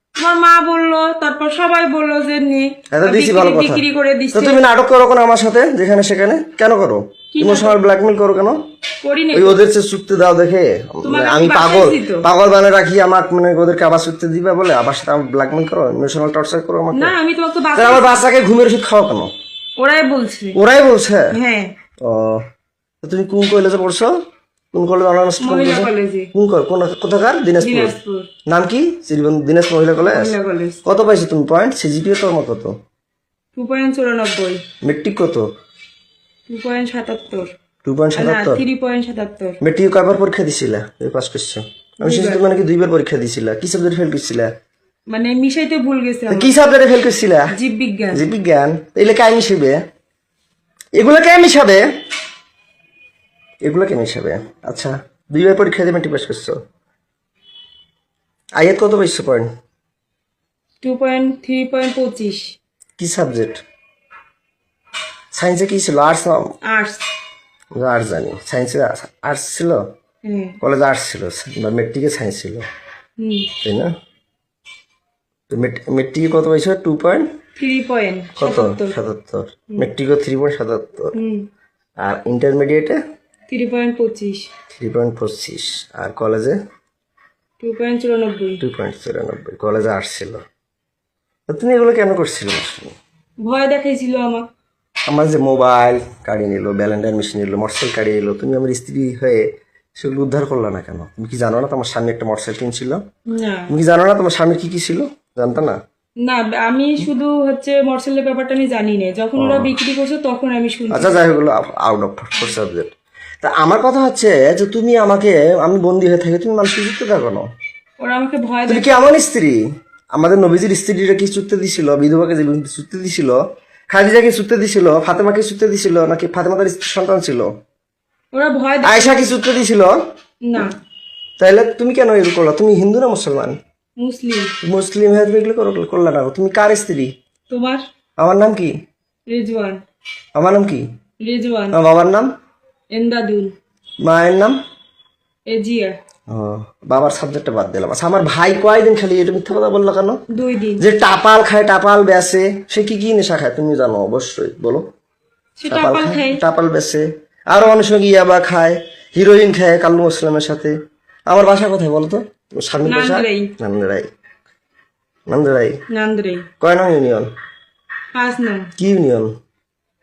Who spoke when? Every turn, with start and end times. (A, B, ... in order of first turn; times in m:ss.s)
0:00.2-0:04.6 A
0:02.9-0:08.6 B
0:07.3-0:07.8 A
0:09.0-0:09.6 A
0:09.3-0:17.1 B
0:11.0-0:12.3 A
0:16.9-0:18.2 A
0:17.7-0:19.3 B
0:19.8-0:20.6 A
0:20.5-0:21.4 B
0:21.3-0:21.7 A
0:22.0-0:22.4 B
0:23.0-0:24.1 B
0:24.7-0:27.9 B
0:25.4-0:26.3 A
0:27.6-0:28.3 A
0:28.4-0:32.8 B
0:30.0-0:30.8 A
0:33.6-0:34.6 A
0:34.8-0:35.4 B
0:36.5-0:37.5 A
0:37.8-0:38.6 B
0:38.2-0:39.6 A
0:39.6-0:44.5 B
0:42.0-0:42.4 A
0:45.1-0:46.5 A
0:46.3-0:47.5 B
0:47.5-0:48.2 A
0:48.1-0:49.8 B
0:51.0-0:51.9 B
0:53.6-0:56.6 B
0:58.6-0:59.5 B
1:00.8-1:02.5 A
1:03.0-1:03.6 B
1:05.3-1:06.5 B
1:06.6-1:07.0 A
1:07.7-1:09.8 B
1:10.2-1:10.6 A
1:10.6-1:12.6 B
1:13.2-1:13.5 A
1:13.6-1:13.9 B
1:15.5-1:17.3 B
1:17.6-1:19.0 A
1:18.4-1:21.1 B
1:21.1-1:21.4 A
1:22.0-1:23.0 B
1:23.5-1:24.5 A
1:24.7-1:26.6 B
1:27.6-1:28.6 A
1:28.6-1:30.4 B
1:31.5-1:32.9 B
1:33.4-1:34.5 A
1:35.1-1:43.0 B
1:43.3-1:43.7 A
1:43.7-1:45.8 B
1:46.2-1:51.2 A
1:49.4-1:49.7 B
1:50.9-1:52.9 B
1:53.4-1:57.5 B
1:58.0-1:58.9 A
1:58.7-1:59.6 B
2:00.1-2:07.5 B
2:08.3-2:09.3 A
2:08.8-2:10.0 B
2:10.4-2:10.7 A
2:11.4-2:13.6 B
2:14.0-2:14.5 A
2:14.6-2:17.1 B
2:17.5-2:17.8 A
2:18.2-2:18.7 B
2:19.3-2:19.8 A
2:20.4-2:20.8 B
2:21.2-2:21.8 A
2:21.7-2:22.3 B
2:22.9-2:23.5 A
2:24.0-2:24.6 B
2:25.5-2:26.0 A
2:26.3-2:30.2 B
2:30.3-2:30.8 A
2:30.8-2:34.8 B
2:35.6-2:36.4 A
2:35.7-2:40.7 B
2:41.3-2:44.1 B
2:42.8-2:43.5 A
2:45.3-2:45.8 B
2:45.9-2:46.5 A
2:46.6-2:47.3 B
2:48.1-2:48.7 A
2:48.8-2:49.3 B